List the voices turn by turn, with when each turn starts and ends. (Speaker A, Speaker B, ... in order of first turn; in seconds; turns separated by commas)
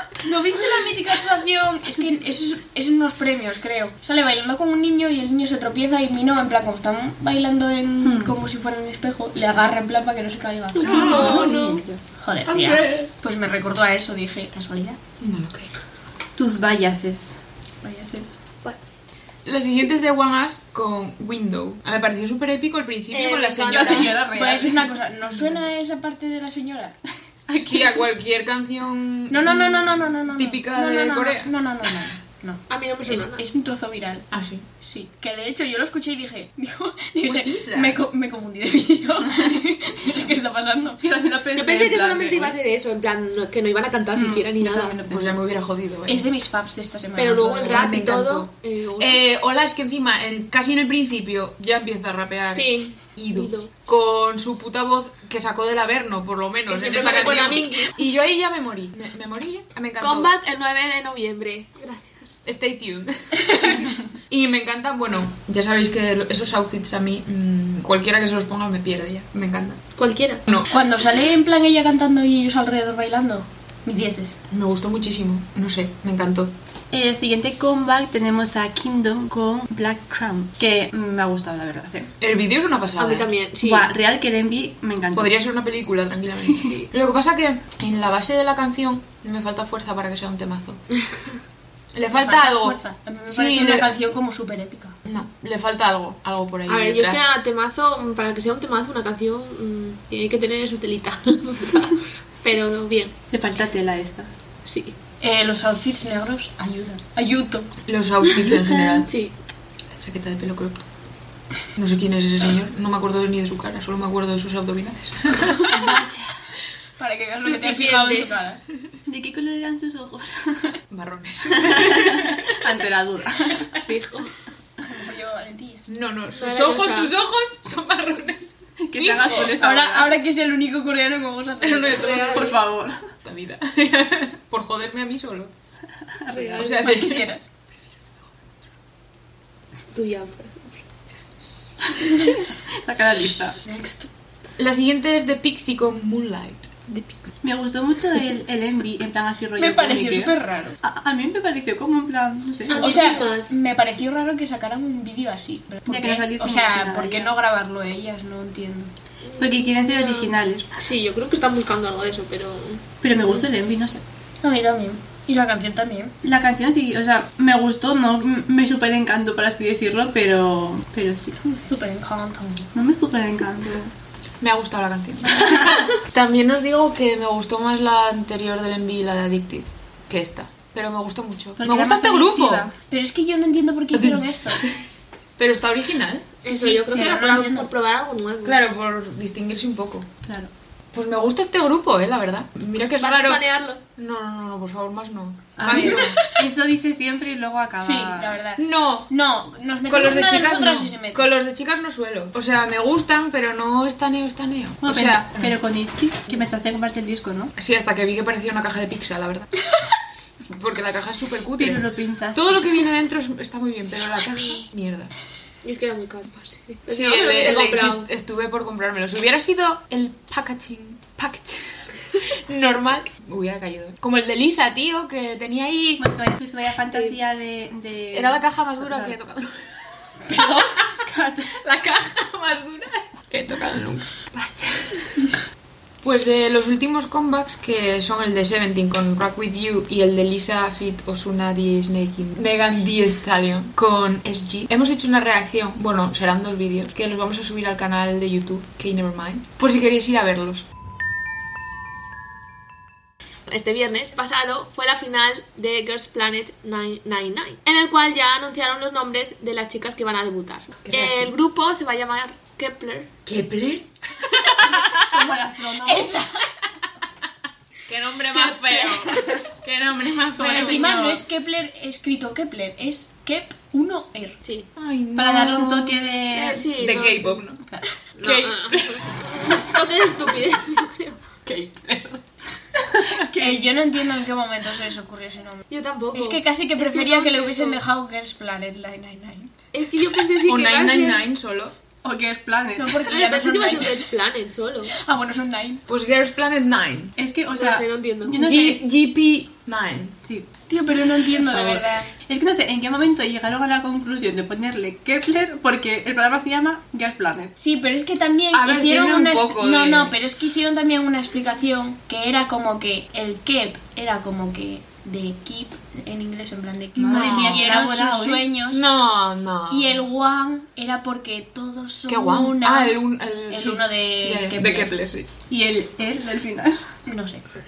Speaker A: 0.2-11.4, Speaker B: 8.0-8.3, Speaker C: 10.7-11.8, Speaker D: 10.8-11.6, Speaker B: 10.8-12.0, Speaker A: 12.2-15.0, Speaker D: 12.4-13.1, Speaker D: 15.2-15.7, Speaker B: 16.4-17.4, Speaker A: 17.8-18.3, Speaker D: 19.4-24.2, Speaker C: 23.1-24.2, Speaker B: 23.6-24.9, Speaker A: 24.3-27.0, Speaker B: 27.5-28.1, Speaker D: 27.6-31.9, Speaker A: 29.3-41.0, Speaker C: 32.7-33.4, Speaker D: 34.3-34.7, Speaker D: 37.2-37.7, Speaker B: 37.5-38.0, Speaker B: 41.0-42.6, Speaker C: 41.5-45.0, Speaker B: 44.1-45.3, Speaker D: 45.1-46.2, Speaker A: 46.1-48.4, Speaker C: 47.2-49.2, Speaker D: 47.6-48.4, Speaker D: 49.0-60.3, Speaker C: 52.5-53.7, Speaker C: 56.7-58.0, Speaker C: 60.0-62.4, Speaker D: 62.5-69.8, Speaker C: 70.0-70.4, Speaker A: 70.7-74.4, Speaker D: 74.5-76.5, Speaker B: 76.9-82.1, Speaker D: 82.2-83.3, Speaker C: 83.0-83.9, Speaker B: 83.6-85.3, Speaker D: 85.1-90.8, Speaker B: 86.4-86.7, Speaker C: 86.6-86.9, Speaker D: 91.9-93.9, Speaker A: 92.1-95.0, Speaker D: 95.0-97.2, Speaker C: 96.7-103.1, Speaker B: 103.3-104.3, Speaker C: 104.6-104.9, Speaker A: 105.2-107.7, Speaker D: 107.8-109.1, Speaker C: 108.3-109.3, Speaker D: 109.9-110.8, Speaker D: 111.7-116.0, Speaker B: 115.7-116.3, Speaker A: 117.0-118.6, Speaker C: 117.4-118.3, Speaker B: 119.0-120.8, Speaker D: 120.9-122.8, Speaker B: 121.5-123.8, Speaker C: 123.8-124.3, Speaker A: 124.8-125.8, Speaker D: 125.9-128.5, Speaker C: 126.3-127.1, Speaker B: 128.8-130.1, Speaker A: 129.0-132.3, Speaker D: 131.6-132.5, Speaker C: 131.8-132.6, Speaker B: 132.2-133.0, Speaker D: 133.2-135.5, Speaker B: 136.2-136.7, Speaker C: 136.3-136.8, Speaker D: 136.6-137.3, Speaker A: 136.8-137.5, Speaker C: 139.9-140.8, Speaker B: 142.1-143.6, Speaker A: 143.6-144.1, Speaker D: 144.6-146.7, Speaker B: 147.4-152.9, Speaker A: 149.6-150.8, Speaker C: 152.7-153.6, Speaker A: 152.7-158.9, Speaker B: 155.8-157.3, Speaker C: 159.2-163.5, Speaker B: 159.4-160.7, Speaker B: 163.0-164.0, Speaker A: 164.4-166.1, Speaker B: 166.2-171.4, Speaker A: 171.4-172.7, Speaker B: 172.7-173.9, Speaker D: 174.4-182.7, Speaker B: 175.4-175.7, Speaker B: 181.6-182.7, Speaker A: 182.9-184.6, Speaker D: 183.9-184.8, Speaker D: 185.4-186.3, Speaker A: 186.4-187.7, Speaker C: 186.4-188.6, Speaker D: 188.4-190.1, Speaker B: 190.2-190.5, Speaker D: 190.9-196.2, Speaker C: 193.0-193.8, Speaker B: 195.6-198.4, Speaker C: 195.7-196.3, Speaker A: 197.8-201.3, Speaker D: 198.6-199.1, Speaker D: 199.8-205.6, Speaker B: 204.8-207.5, Speaker D: 207.6-209.5, Speaker D: 210.5-215.1, Speaker B: 211.6-212.6, Speaker C: 215.6-218.1, Speaker D: 216.9-226.1, Speaker B: 226.0-229.1, Speaker D: 228.1-231.0, Speaker B: 230.3-231.6, Speaker D: 231.6-234.1, Speaker B: 234.3-235.0, Speaker D: 236.0-250.7, Speaker C: 253.5-263.1, Speaker D: 260.8-261.4, Speaker D: 263.2-265.0, Speaker B: 264.8-266.1, Speaker A: 265.6-266.3, Speaker D: 267.9-271.0, Speaker B: 269.1-269.4, Speaker B: 270.3-271.2, Speaker A: 270.5-274.4, Speaker C: 274.4-274.7, Speaker D: 274.8-276.1, Speaker B: 275.1-276.6, Speaker C: 276.3-277.4, Speaker D: 276.8-277.6, Speaker C: 278.1-281.2, Speaker D: 278.2-279.6, Speaker D: 281.4-282.2, Speaker B: 283.0-283.7, Speaker A: 283.4-289.5, Speaker C: 285.7-287.8, Speaker C: 289.7-291.2, Speaker D: 290.3-291.7, Speaker B: 292.0-293.0, Speaker A: 292.8-294.1, Speaker C: 293.1-294.9, Speaker A: 294.9-295.8, Speaker D: 295.9-297.1, Speaker B: 297.2-298.8, Speaker C: 297.5-298.4, Speaker D: 298.4-300.2, Speaker A: 300.7-302.1, Speaker B: 301.5-307.5, Speaker A: 307.6-318.8, Speaker D: 308.5-310.1, Speaker B: 316.9-318.4, Speaker D: 317.1-317.8, Speaker D: 318.7-320.0, Speaker A: 319.7-324.9, Speaker D: 322.1-325.3, Speaker B: 325.5-326.9, Speaker A: 327.1-327.4